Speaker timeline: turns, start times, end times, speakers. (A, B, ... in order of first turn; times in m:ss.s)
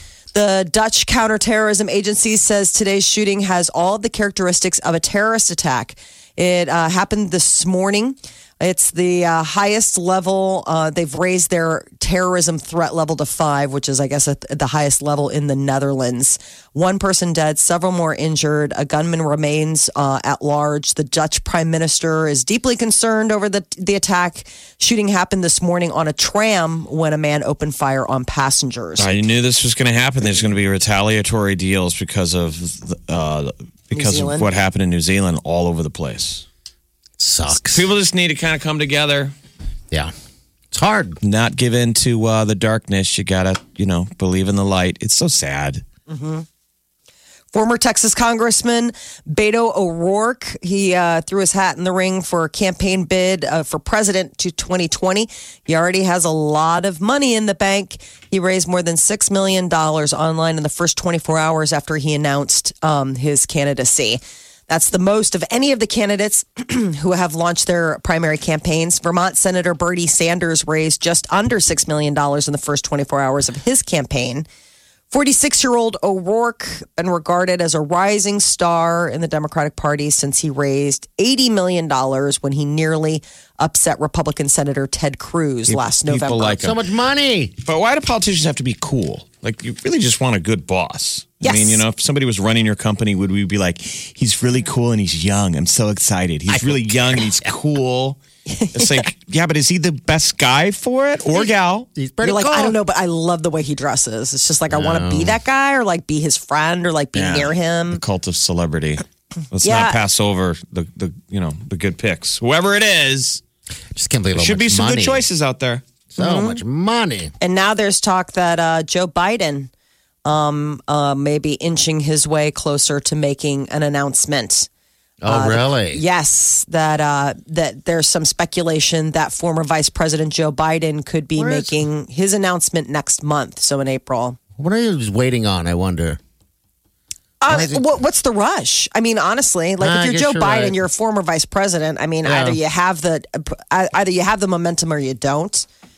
0:00.3-0:29.1 A
0:29.0-0:36.4 B
0:33.9-0:34.5 A
0:37.2-0:37.9 C
0:37.5-0:39.3 B
0:40.7-0:41.2 C
0:41.2-0:45.8 B
0:46.1-0:46.4 A
0:47.5-1:14.5 A
1:15.1-1:26.6 A
1:25.7-1:26.8 B
1:26.6-1:27.5 C
1:27.6-1:38.2 B
1:31.4-1:31.8 A
1:36.5-1:37.5 C
1:38.5-1:39.0 A
1:38.7-1:41.9 B
1:42.0-1:42.8 C
1:42.2-1:48.0 A
1:44.7-1:45.4 C
1:47.2-1:53.4 B
1:49.6-1:50.0 A
1:54.0-1:55.2 C
1:54.4-1:55.8 B
1:56.1-1:57.3 C
1:56.2-1:56.6 A
1:57.4-1:59.7 A
2:00.2-2:04.7 A
2:05.2-2:06.0 C
2:05.3-2:14.4 A
2:11.4-2:11.8 C
2:14.6-2:16.2 C
2:17.4-2:25.7 A
2:17.5-2:17.8 C
2:19.8-2:20.8 C
2:22.2-2:22.6 C